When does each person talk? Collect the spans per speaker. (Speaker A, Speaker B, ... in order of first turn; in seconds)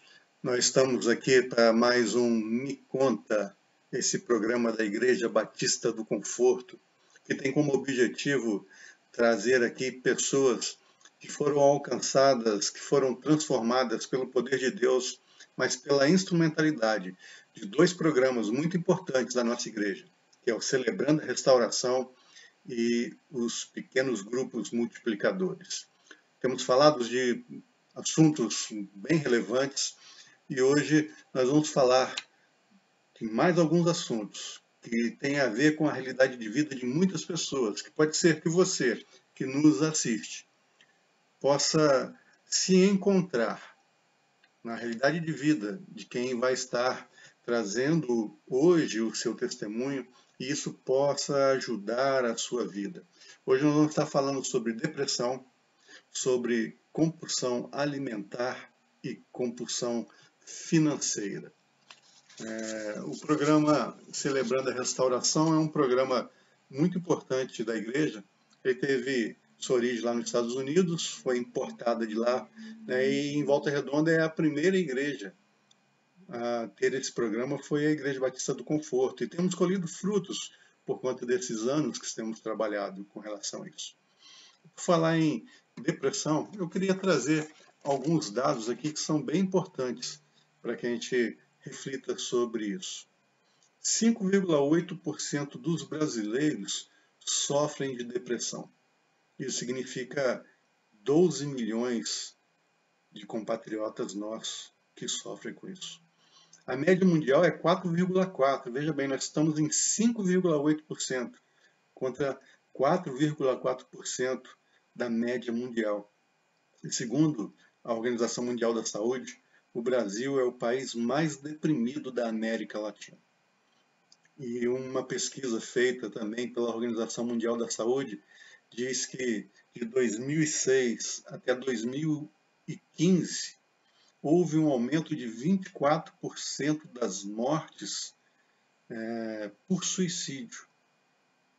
Speaker A: 0.4-22.1, 22.6-25.9, 26.4-30.0, 30.5-32.1, 33.2-40.5, 41.4-43.6, 44.6-55.5, 56.1-61.5, 62.4-75.3, 76.3-84.0, 84.7-93.1, 93.8-98.7, 99.4-100.5, 101.0-102.4, 103.1-106.0, 106.7-111.4, 112.0-116.1, 116.8-123.2, 124.4-133.6, 134.2-138.2, 138.9-140.7